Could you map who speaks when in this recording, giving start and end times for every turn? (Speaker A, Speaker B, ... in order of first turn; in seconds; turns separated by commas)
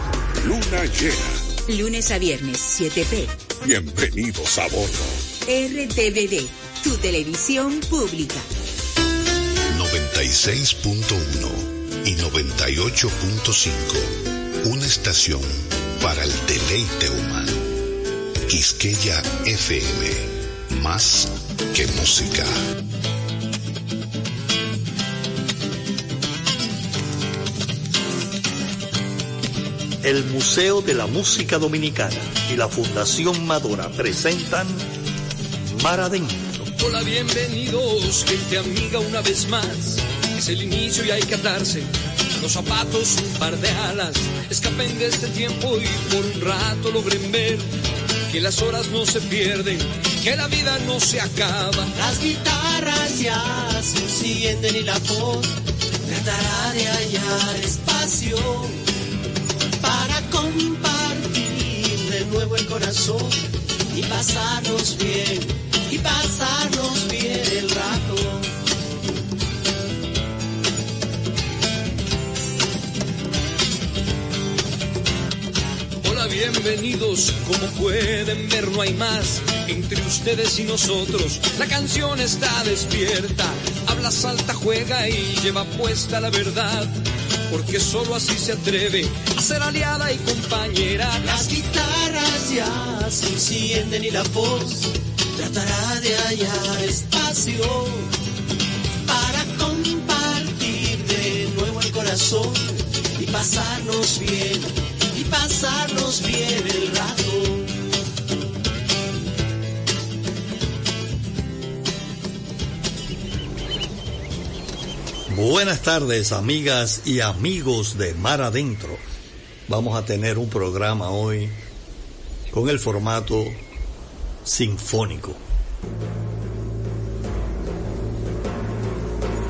Speaker A: 0.4-1.4, Speaker B: 1.7-3.3, Speaker A: 3.6-5.2, Speaker B: 5.5-8.4, Speaker C: 9.7-17.7, Speaker C: 18.5-22.6, Speaker D: 30.0-34.9, Speaker D: 35.7-36.7, Speaker E: 36.8-47.7, Speaker E: 48.3-51.9, Speaker F: 52.0-58.8, Speaker F: 59.8-68.5, Speaker E: 76.0-87.0, Speaker E: 87.5-91.2, Speaker F: 91.2-98.1, Speaker F: 99.0-107.7, Speaker D: 115.3-119.0, Speaker D: 119.7-121.6, Speaker D: 122.5-123.6, Speaker D: 124.5-125.4